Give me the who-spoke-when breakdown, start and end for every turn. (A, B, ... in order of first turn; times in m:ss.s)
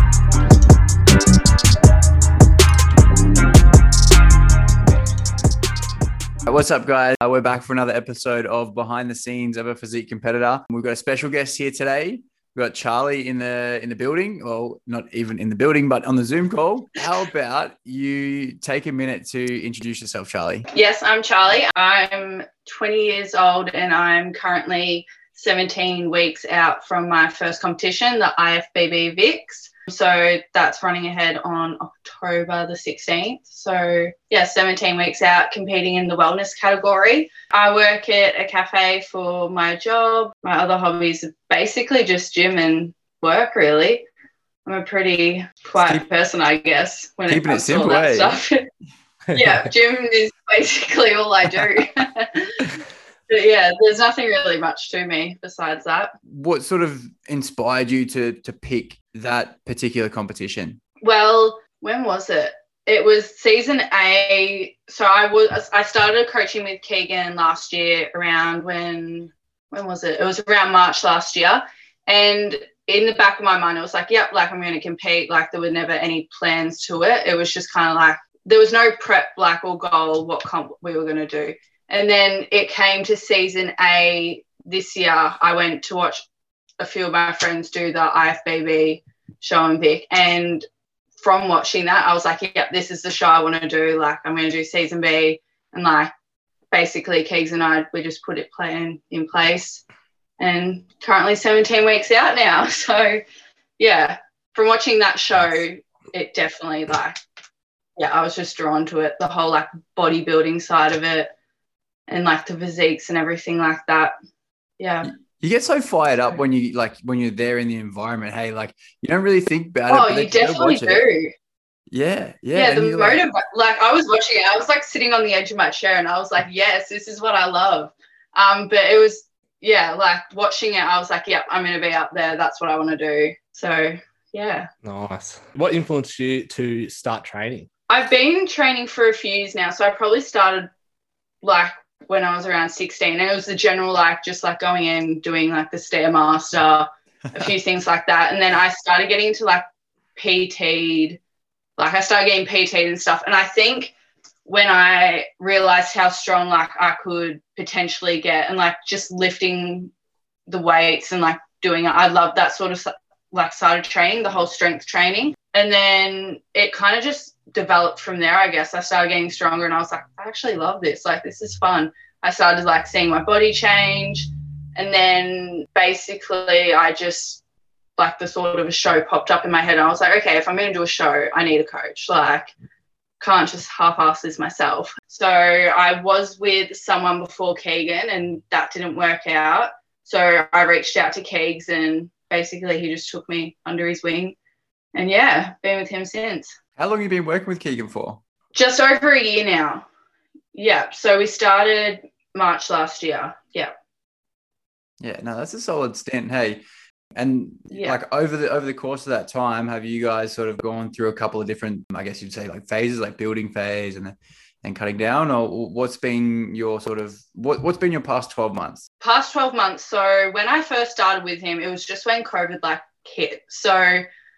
0:06.4-0:20.7 A
0:20.7-0:44.0 B
0:44.6-0:48.7 B
0:45.8-0:46.0 A
0:47.3-0:48.4 A
0:49.3-0:52.7 B
0:53.3-0:56.1 B
0:56.3-1:00.8 A
1:01.0-1:26.2 B
1:26.8-1:30.6 B
1:31.2-1:36.1 B
1:36.7-1:39.8 B
1:40.4-1:43.2 B
1:43.8-1:47.2 B
1:48.0-1:51.3 B
1:52.1-1:54.1 B
1:54.8-1:55.1 B
1:55.0-2:01.0 A
1:59.9-2:01.3 B
2:01.9-2:03.2 A
2:02.5-2:14.7 B
2:14.8-2:17.7 C
2:17.9-2:20.7 B
2:21.4-2:29.6 B
2:30.1-2:31.2 B
2:31.8-2:33.9 B
2:34.4-2:39.9 B
2:40.5-2:57.4 B
2:58.0-3:02.5 B
3:03.2-3:14.4 B
3:14.9-3:16.6 B
3:16.8-3:18.2 A
3:18.5-3:19.8 B
3:20.5-3:23.7 B
3:25.0-3:26.6 A
3:27.1-3:38.8 A
3:27.7-3:28.0 B
3:39.0-3:44.0 B